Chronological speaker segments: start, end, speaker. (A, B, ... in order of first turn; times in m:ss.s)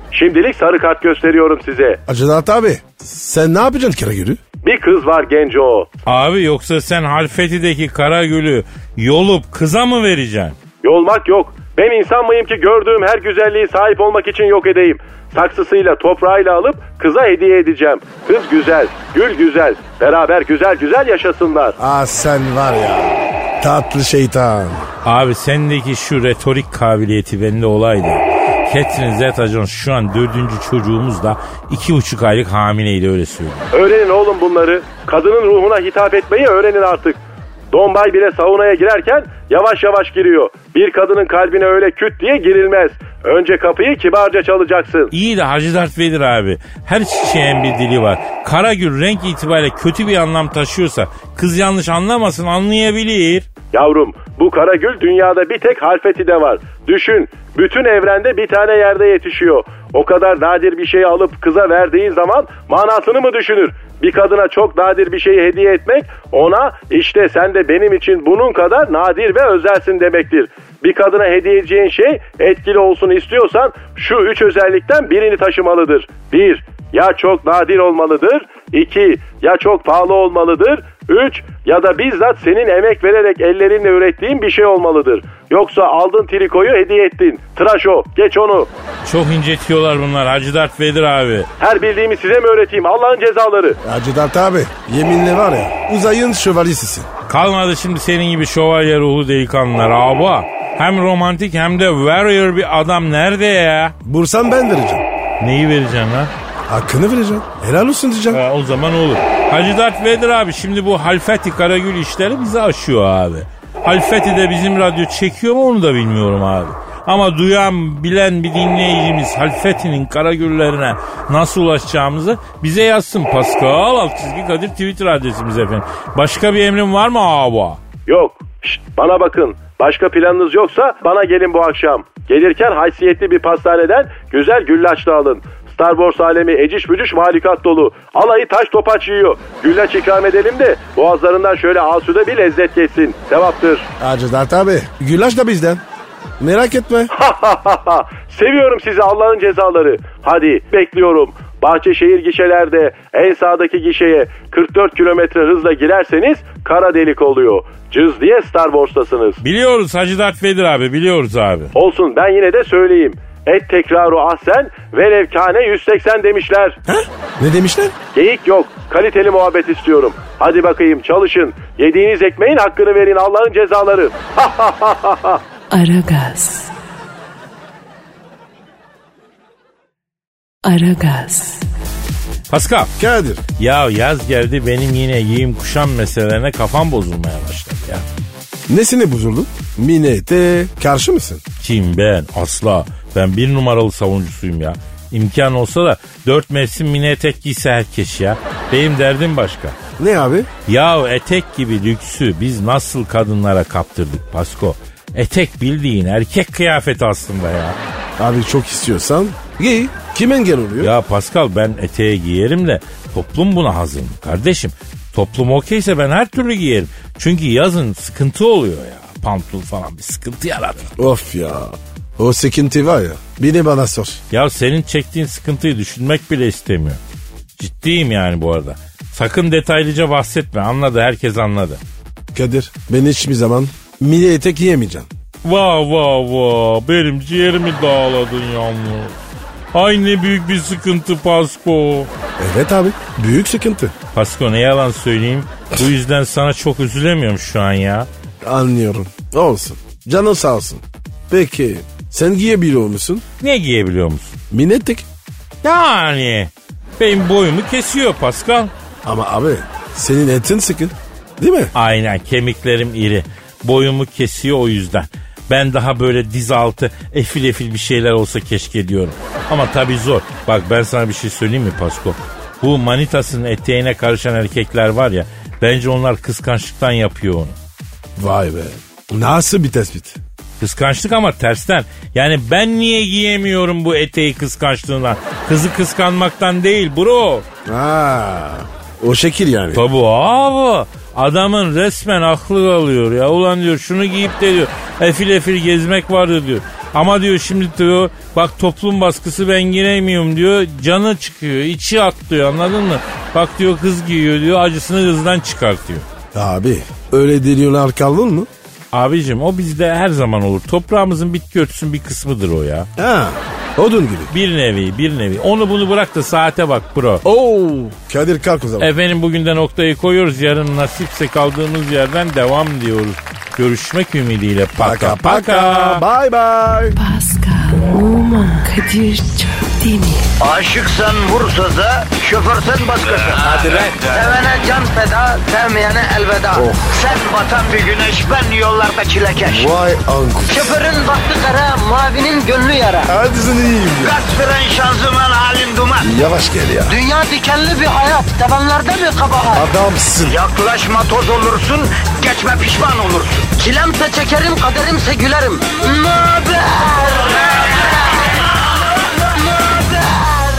0:00.1-0:02.0 A
0:02.1-0:04.4 B
0:04.6-0:05.9 A
0:06.0-0:10.6 C
0:10.8-0:21.8 A
0:21.8-0:24.9 B
0:25.0-0:33.7 C
0:33.7-0:45.1 A
0:45.1-0:53.4 C
0:53.7-1:28.7 A
1:29.0-1:31.5 C
1:31.6-1:33.8 A
1:33.8-1:37.1 B
1:37.3-1:43.9 C
1:44.0-1:45.0 B
1:45.4-1:46.3 C
1:46.7-1:48.4 B
1:48.3-2:07.8 C
2:08.1-2:23.9 A
2:24.0-2:25.8 B
2:26.4-2:27.1 B
2:27.1-2:39.4 A
2:39.4-2:41.7 C
2:41.7-2:46.8 A
2:46.8-2:47.9 B
2:48.1-2:55.4 A
2:55.7-2:56.7 D
3:00.6-3:01.6 D
3:02.5-3:02.9 C
3:03.0-3:03.4 B
3:03.6-3:08.0 C
3:08.7-3:11.4 B
3:11.6-3:19.8 C
3:20.0-3:20.5 B
3:20.7-3:27.8 C
3:28.2-3:30.9 B
3:30.8-3:40.9 C
3:41.0-3:44.2 B
3:44.3-3:47.0 C
3:47.6-3:51.8 C
3:52.3-3:55.1 B
3:55.4-3:59.2 C
3:59.7-4:02.1 C
4:02.4-4:03.9 B
4:04.1-4:08.1 C
4:08.4-4:13.2 B
4:13.4-4:14.4 C
4:14.5-4:15.0 B
4:15.6-4:18.7 C
4:19.0-4:21.7 B
4:21.7-4:37.6 C
4:38.2-4:40.2 B
4:40.6-4:47.4 C
4:47.6-4:49.8 B
4:49.7-5:06.0 C
5:06.3-5:08.5 B
5:08.9-5:12.9 C
5:13.0-5:14.3 B
5:14.3-5:17.2 C
5:17.2-5:18.9 B
5:18.8-5:26.0 C
5:24.8-5:27.0 B
5:27.0-5:30.3 D
5:30.4-5:39.7 E
5:33.4-5:34.1 B
5:36.5-5:37.0 B
5:39.4-5:40.7 B
5:40.5-5:43.1 E
5:43.1-5:44.2 B
5:44.0-5:46.1 E
5:46.0-5:47.0 B
5:46.8-5:49.6 E
5:49.5-5:50.4 B
5:50.2-5:58.1 E
5:59.1-6:00.4 E